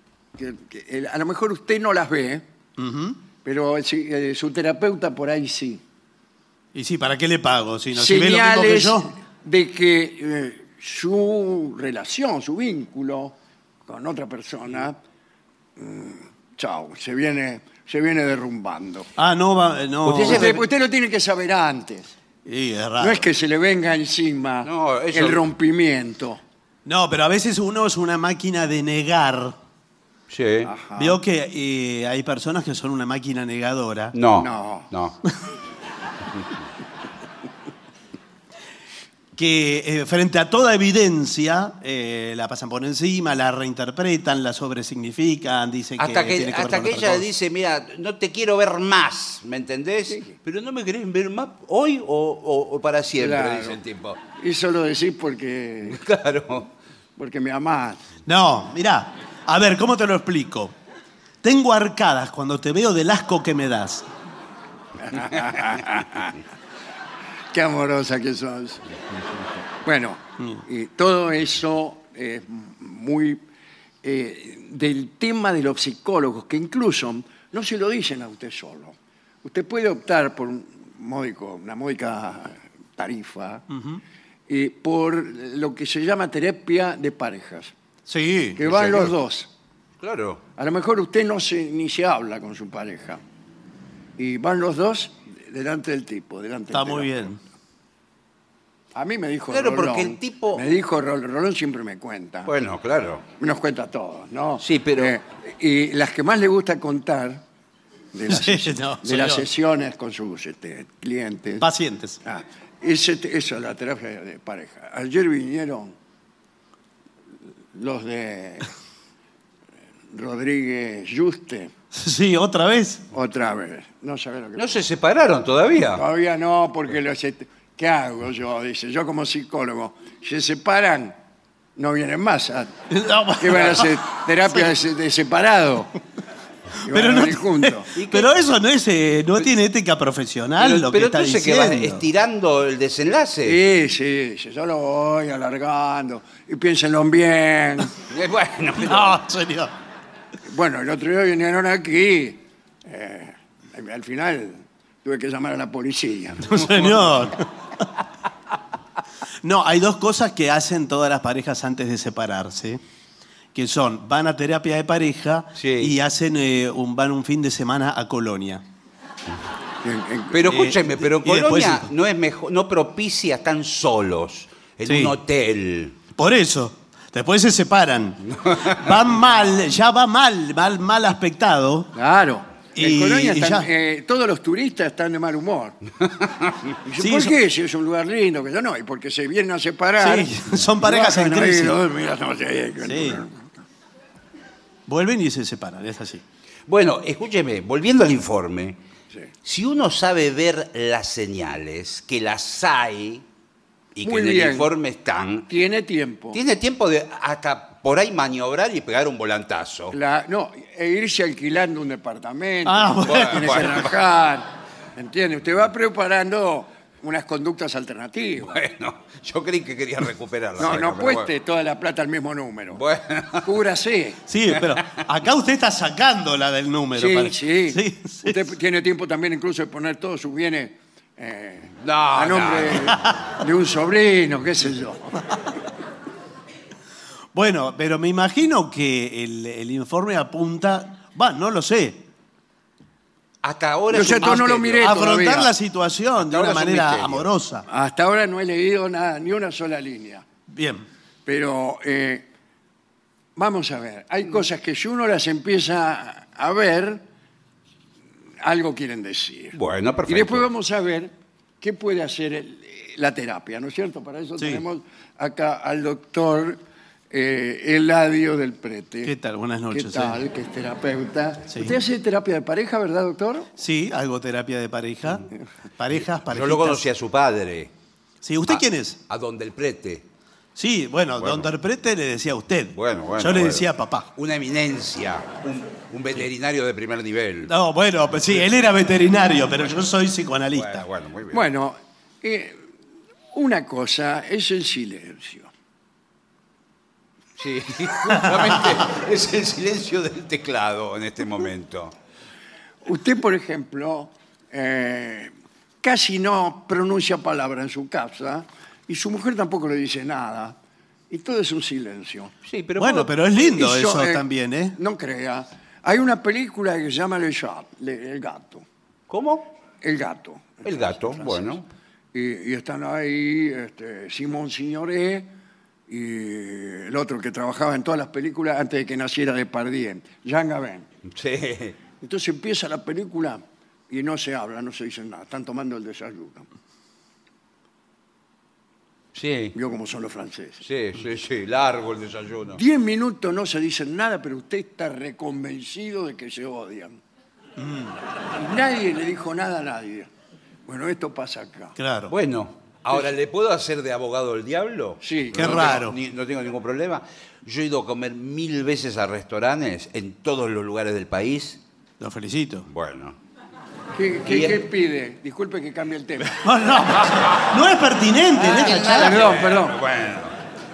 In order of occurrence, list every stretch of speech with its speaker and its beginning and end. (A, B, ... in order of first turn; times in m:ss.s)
0:00.4-0:02.4 A
0:02.8-0:03.2 B
0:03.4-0:05.8 A
0:06.7-0:09.1 B
0:07.9-0:15.0 A
0:15.8-0:19.1 A
0:19.2-0:20.6 B
0:20.0-0:20.6 C
0:20.2-0:22.1 A
0:22.4-0:23.3 B
0:23.0-0:26.4 A
0:24.6-0:25.4 C
0:26.8-0:29.6 B
0:30.3-0:30.7 C
0:30.6-0:31.2 A
0:31.0-0:34.1 B
0:34.1-0:35.2 C
0:34.4-0:34.9 A
0:39.4-0:47.3 B
0:46.0-0:54.2 C
0:50.1-0:50.3 A
0:53.2-0:53.8 A
0:54.4-0:56.0 A
0:55.9-0:56.7 C
0:57.2-0:58.0 A
0:58.2-1:00.7 B
1:01.4-1:04.0 B
1:05.0-1:06.3 A
1:07.5-1:08.8 A
1:09.8-1:13.4 A
1:14.0-1:23.6 A
1:23.7-1:24.0 B
1:24.5-1:27.7 A
1:28.1-1:29.1 B
1:28.6-1:29.5 A
1:30.0-1:30.4 C
1:30.6-1:33.2 A
1:34.2-1:37.2 A
1:36.7-1:37.4 B
1:38.9-1:42.5 A
1:39.5-1:40.6 C
1:42.4-1:43.2 C
1:43.4-1:47.4 A
1:44.6-1:45.1 C
1:48.1-1:51.6 A
1:48.3-1:49.5 B
1:51.6-1:52.2 B
1:52.2-1:55.9 A
1:57.7-1:58.7 A
2:00.1-2:01.7 A
2:01.9-2:03.0 B
2:03.1-2:04.7 A
2:04.6-2:06.0 C
2:05.9-2:11.2 A
2:11.8-2:12.7 A
2:12.9-2:14.0 B
2:13.4-2:15.9 A
2:16.8-2:17.9 A
2:16.8-2:22.0 B
2:18.0-2:18.3 C
2:20.6-2:23.6 C
2:23.4-2:27.9 A
2:28.1-2:29.2 C
2:28.8-2:29.7 B
2:30.4-2:36.9 A
2:36.4-2:37.8 B
2:39.4-2:42.8 B
2:43.5-2:48.6 B
2:45.6-2:45.9 C
2:49.8-2:50.5 A
2:50.3-2:56.0 C
2:50.5-2:51.9 B
2:54.8-2:55.2 B
2:56.1-3:01.9 B
3:01.9-3:05.8 A
3:02.8-3:03.7 B
3:06.8-3:13.5 A
3:07.0-3:07.4 B
3:10.0-3:11.8 B
3:12.8-3:13.2 B
3:14.9-3:16.2 B
3:16.7-3:18.8 C
3:19.4-3:23.2 C
3:23.9-3:25.5 C
3:24.0-3:24.7 A
3:25.5-3:26.4 A
3:26.3-3:29.9 C
3:29.9-3:38.6 A
3:32.6-3:33.9 B
3:33.1-3:33.9 C
3:38.5-3:41.3 C
3:40.6-3:42.8 A
3:42.8-3:43.5 C
3:43.4-3:44.2 A
3:44.3-3:48.4 B
3:44.7-3:45.0 C
3:46.9-3:55.1 A
3:51.8-3:52.9 C
3:57.3-4:02.0 B
4:03.4-4:05.0 C
4:03.9-4:05.5 A
4:04.8-4:07.6 B
4:06.2-4:07.3 C
4:07.6-4:10.2 A
4:10.5-4:10.8 B
4:11.2-4:12.2 A
4:13.4-4:17.0 A
4:18.4-4:26.6 A
4:19.5-4:20.5 C
4:24.4-4:24.6 B
4:27.1-4:29.1 A
4:29.0-4:30.2 B
4:29.7-4:33.5 A
4:31.5-4:31.8 B
4:33.6-4:36.8 B
4:36.2-4:37.7 C
4:38.2-4:39.0 B
4:38.5-4:40.0 C
4:40.6-4:44.1 B
4:41.2-4:41.5 C
4:42.7-4:47.5 C
4:47.4-4:50.9 B
4:50.5-4:51.4 C
4:51.3-4:52.6 A
4:53.3-4:55.5 A
4:57.4-5:01.9 C
4:58.1-4:58.5 B
5:02.8-5:10.6 A
5:11.1-5:12.3 A
5:12.4-5:13.1 C
5:12.8-5:14.8 B
5:13.4-5:18.6 A
5:19.1-5:19.5 C
5:19.8-5:21.6 A
5:20.6-5:21.6 C
5:22.1-5:25.3 A
5:25.9-5:30.8 A
5:31.0-5:31.8 C
5:32.0-5:36.4 A
5:39.1-5:39.5 C
5:39.5-5:40.6 A
5:40.6-5:42.6 C
5:42.5-5:47.0 A
5:47.6-5:47.9 B
5:48.3-5:50.1 A
5:50.7-5:51.8 A
5:51.8-5:52.1 B
5:52.1-6:01.6 C
5:55.0-5:55.8 A
5:55.3-5:56.0 B
6:02.0-6:02.7 B
6:02.7-6:03.2 C
6:03.9-6:06.5 A
6:04.3-6:04.6 C
6:06.4-6:09.3 B
6:08.3-6:09.8 A
6:08.4-6:10.3 C